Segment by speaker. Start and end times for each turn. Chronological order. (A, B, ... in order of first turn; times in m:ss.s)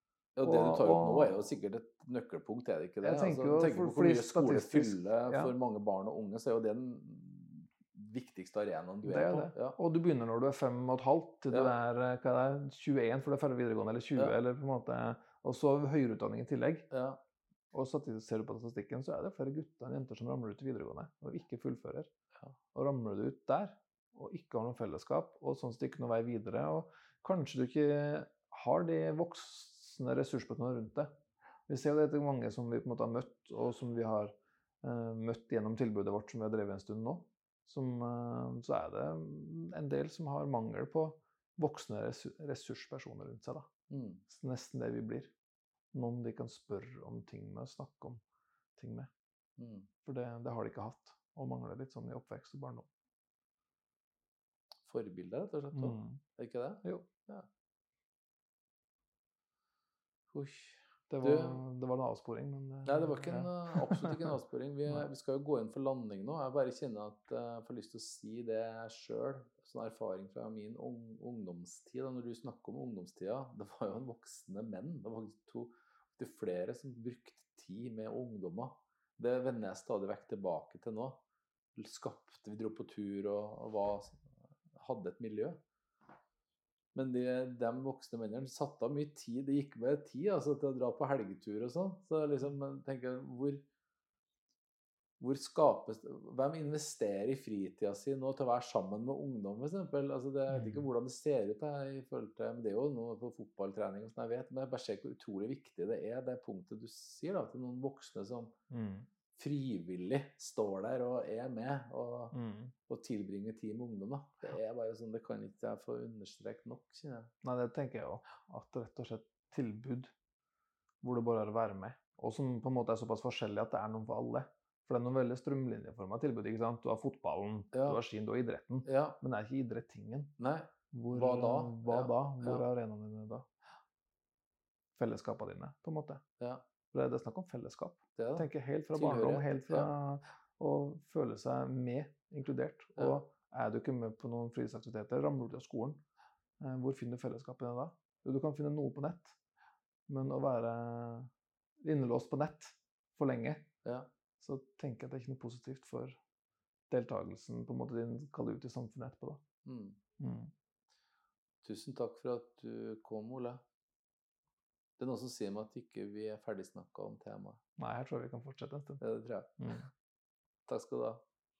0:00.4-0:09.8 A
0:00.4-0:01.4 B
0:03.0-0:05.5 B
0:09.0-0:16.9 B
0:16.9-0:17.2 A
0:17.7-0:22.1 B
0:22.7-0:31.1 B
0:31.7-0:43.7 B
0:43.9-0:44.2 A
0:44.3-0:45.3 B
0:45.9-0:48.2 B
0:48.8-0:49.1 B
0:49.6-0:49.9 A
0:50.0-0:52.9 B
0:54.8-0:57.4 A
0:55.7-0:56.2 B
1:00.3-1:01.6 A
1:01.1-1:04.3 B
1:02.8-1:21.2 A
1:21.7-1:24.2 A
1:24.7-1:25.6 A
1:26.9-1:33.6 A
1:35.2-1:48.5 A
1:40.5-1:40.9 B
1:48.7-1:49.1 B
1:49.3-1:52.4 A
1:52.3-1:52.7 B
1:52.9-1:57.3 A
1:57.4-2:00.1 B
2:01.0-2:10.3 B
2:07.7-2:08.0 A
2:08.8-2:09.2 A
2:10.4-2:12.6 A
2:10.9-2:13.4 B
2:15.0-2:16.2 B
2:16.9-2:26.0 B
2:18.2-2:19.9 A
2:26.6-2:29.3 B
2:30.1-2:31.3 B
2:31.8-2:33.7 B
2:34.4-2:36.2 B
2:36.9-2:39.4 B
2:39.6-2:40.0 A
2:40.2-2:40.5 B
2:41.6-2:43.6 A
2:45.0-2:47.6 A
2:47.8-2:49.0 B
2:49.0-2:49.8 A
2:49.6-2:49.8 B
2:50.7-2:51.2 A